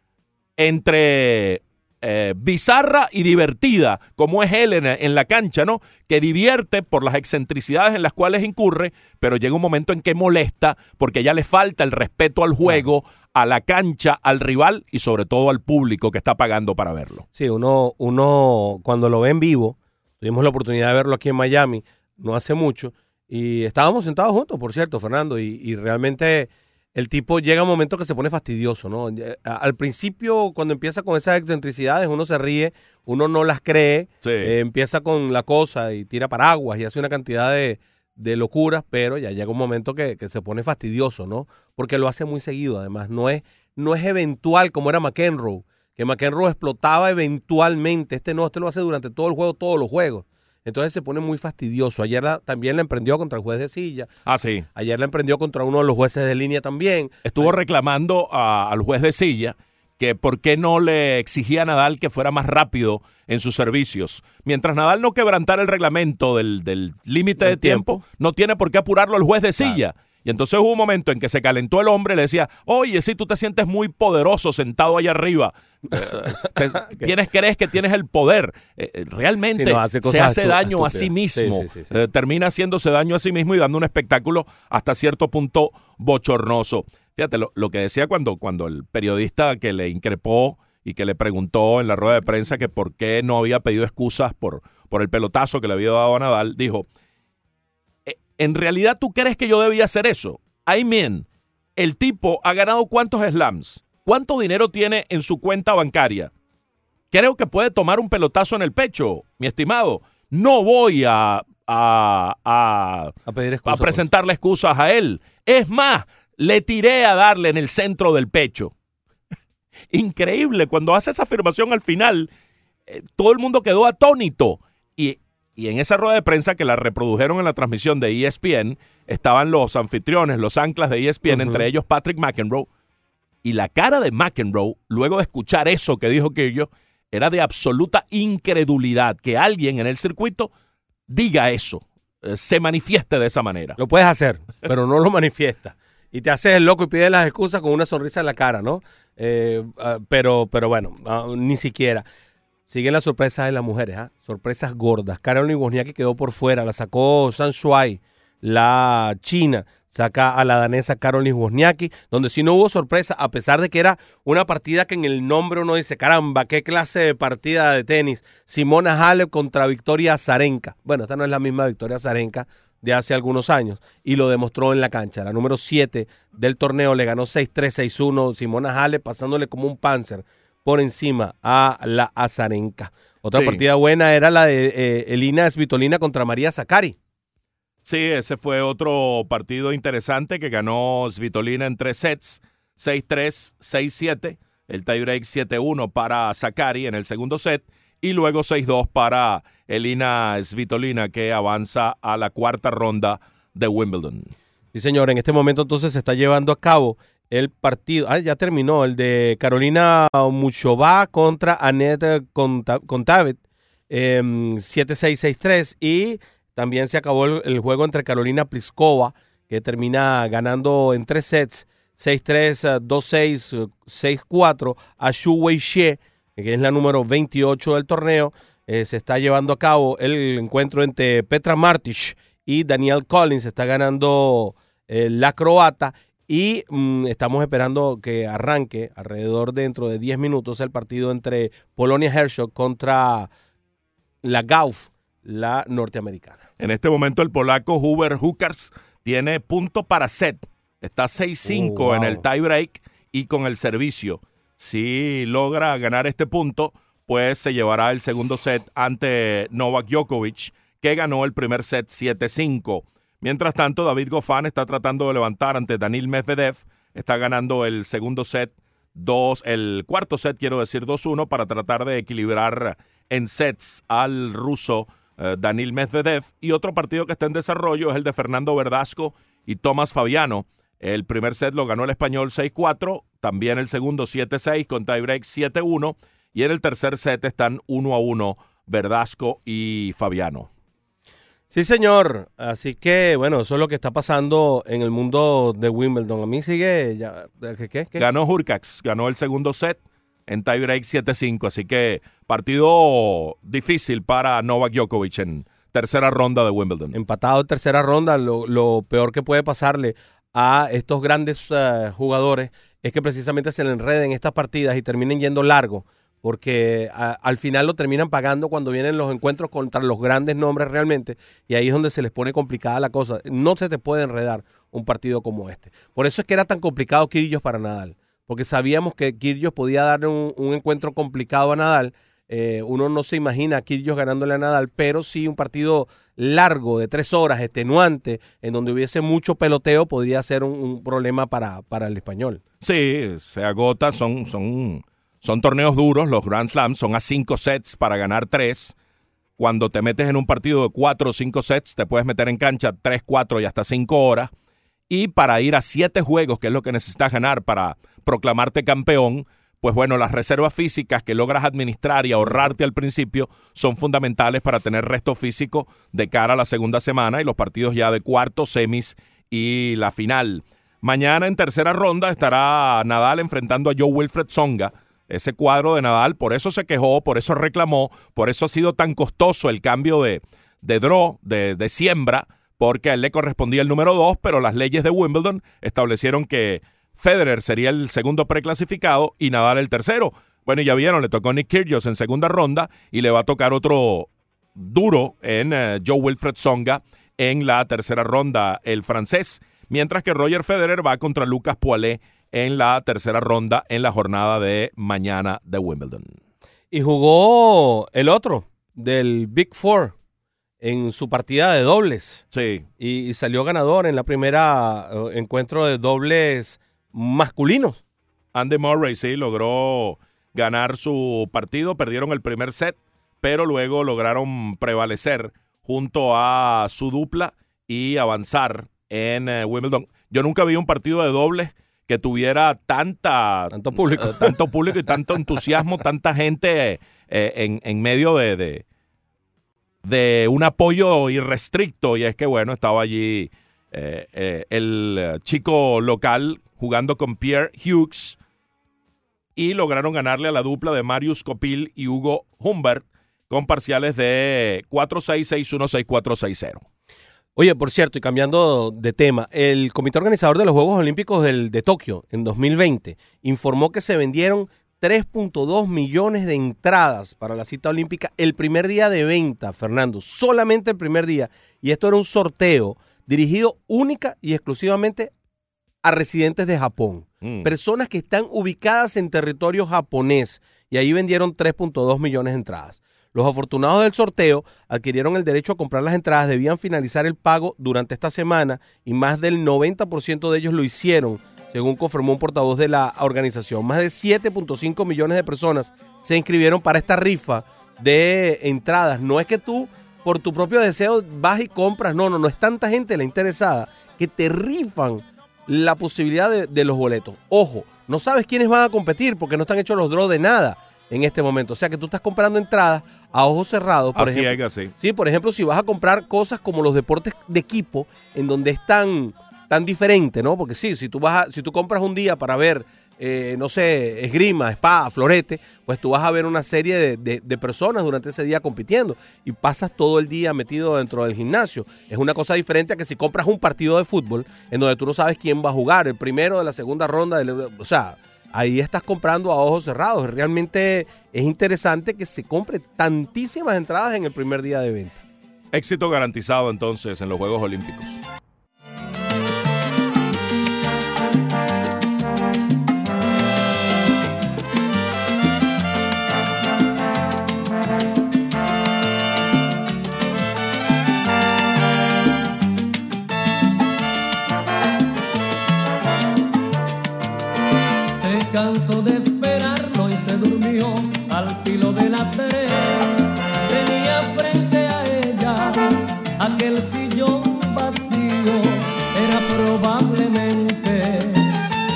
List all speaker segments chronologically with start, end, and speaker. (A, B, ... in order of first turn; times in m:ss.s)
0:00.6-0:17.2 A
0:17.3-0:54.1 B
0:34.2-0:34.5 A
0:54.2-0:54.6 A
0:54.7-0:57.5 B
0:57.3-1:36.9 A
1:07.4-1:08.0 B
1:16.4-1:17.1 B
1:19.5-1:21.9 B
1:38.1-1:41.2 A
1:41.8-1:46.3 A
1:47.1-1:53.1 A
1:53.3-1:54.0 B
1:53.6-1:58.7 A
1:59.9-2:02.3 A
2:02.9-2:12.7 A
2:11.3-2:11.6 B
2:13.4-2:20.5 A
2:21.1-2:23.8 A
2:23.8-2:32.0 B
2:32.7-3:07.0 B
3:03.3-3:03.6 A
3:07.8-3:24.3 A
3:24.7-4:03.3 B
4:04.2-4:06.4 B
4:06.6-4:50.5 A
4:11.4-4:12.2 B
4:51.5-4:58.0 B
4:58.0-5:07.0 A
5:06.9-5:42.4 B
5:42.6-5:48.7 A
5:49.4-5:54.3 A
5:54.9-6:46.1 A
6:46.7-6:49.9 B
6:50.6-6:52.2 B
6:52.3-6:52.6 A
6:52.8-6:57.8 B
6:58.3-7:18.6 A
7:13.5-7:14.4 B
7:19.8-7:28.2 A
7:29.4-7:36.6 A
7:37.4-7:55.1 B
7:55.8-9:05.0 B
7:57.2-7:57.5 A
8:33.9-8:34.7 A
9:05.5-9:08.0 A
9:27.9-9:41.4 C